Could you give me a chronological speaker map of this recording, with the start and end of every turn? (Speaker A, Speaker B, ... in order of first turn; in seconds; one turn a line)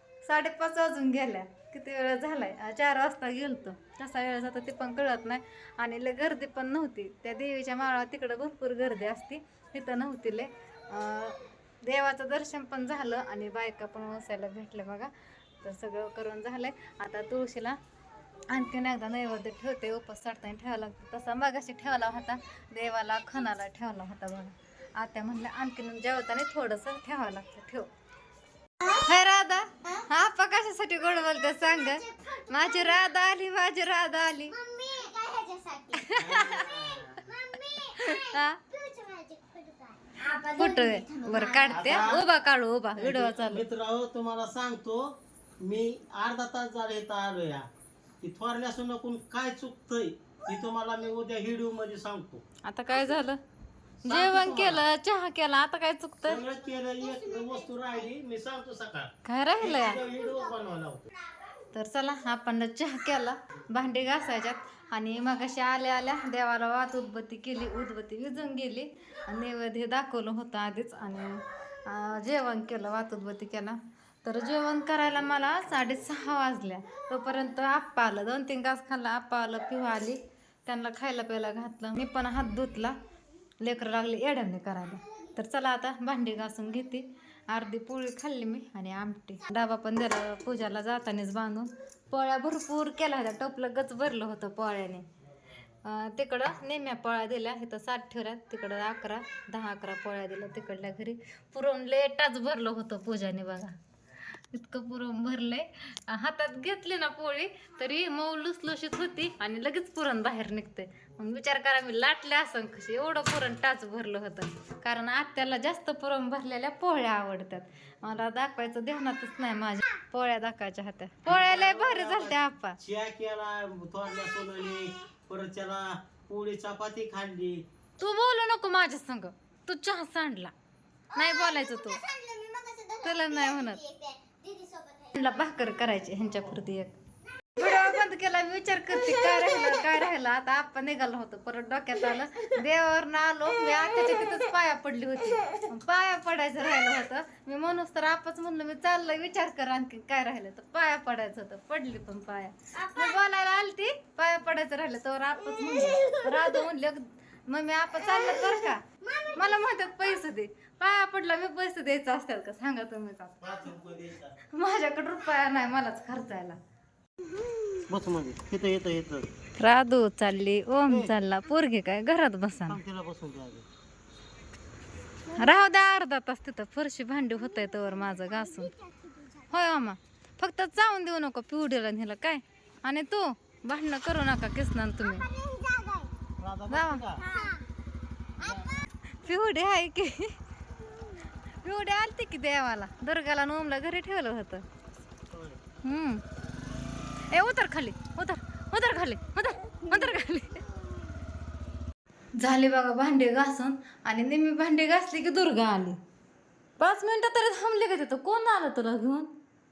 Speaker A: 0.2-17.8
Speaker A: 18.5-27.9
Speaker A: 28.9-34.5
Speaker B: 31.3-33.0
Speaker B: 34.5-36.5
Speaker A: 36.0-36.6
Speaker C: 36.1-37.2
Speaker B: 37.2-42.0
Speaker A: 37.9-38.6
Speaker A: 40.6-43.6
Speaker C: 41.7-42.2
Speaker C: 42.9-47.7
Speaker C: 48.2-52.4
Speaker A: 52.6-53.4
Speaker A: 54.0-56.4
Speaker C: 54.0-54.8
Speaker C: 56.2-61.0
Speaker B: 57.0-58.0
Speaker A: 59.2-60.0
Speaker B: 60.0-60.4
Speaker A: 61.7-83.0
Speaker A: 83.6-95.0
Speaker A: 95.8-103.8
Speaker A: 104.5-122.8
Speaker C: 121.2-127.6
Speaker A: 128.0-130.5
Speaker B: 131.1-135.3
Speaker A: 131.1-132.0
Speaker A: 133.0-133.8
Speaker A: 135.2-136.9
Speaker A: 137.6-163.5
Speaker B: 152.8-153.2
Speaker B: 155.7-156.5
Speaker B: 158.1-160.1
Speaker C: 163.4-164.3
Speaker A: 164.5-166.6
Speaker C: 167.9-169.3
Speaker A: 169.6-172.8
Speaker C: 170.9-171.1
Speaker C: 172.7-173.7
Speaker A: 175.3-178.7
Speaker B: 177.8-179.5
Speaker A: 179.5-185.3
Speaker B: 185.2-186.1
Speaker C: 186.4-187.2
Speaker A: 186.7-187.0
Speaker B: 187.2-187.6
Speaker A: 189.1-190.4
Speaker A: 191.6-194.6
Speaker C: 195.3-195.6
Speaker A: 195.8-196.2
Speaker A: 197.3-200.6
Speaker A: 202.4-206.0
Speaker A: 206.8-209.3